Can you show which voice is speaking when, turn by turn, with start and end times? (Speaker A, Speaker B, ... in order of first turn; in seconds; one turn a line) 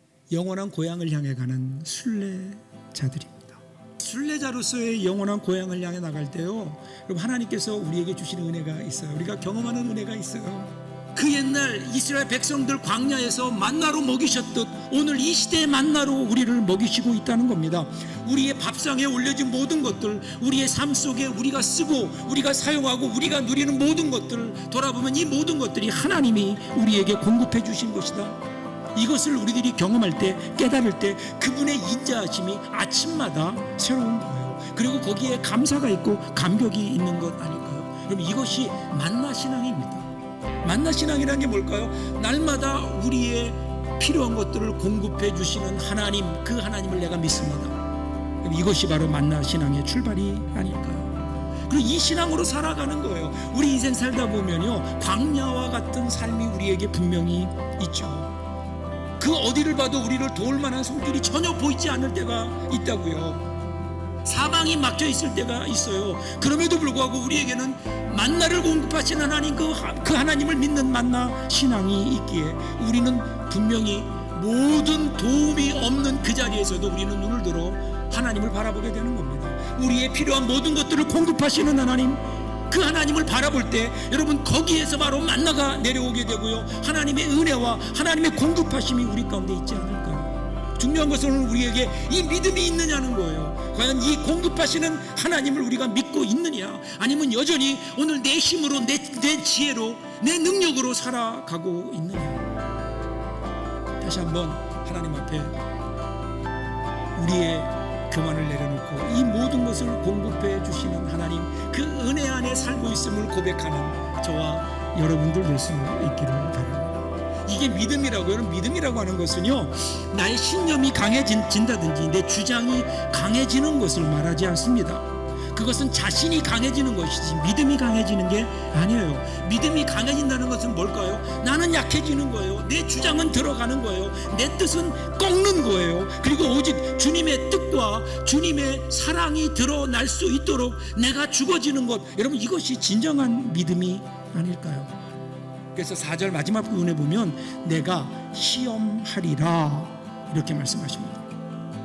Speaker A: 0.3-28.4
Speaker A: 28.9-40.1
Speaker A: 40.6-47.8
Speaker A: 48.4-58.3
Speaker A: 59.2-63.4
Speaker A: 64.2-102.5
Speaker A: 104.0-105.6
Speaker A: 107.2-144.9
Speaker A: 145.8-151.3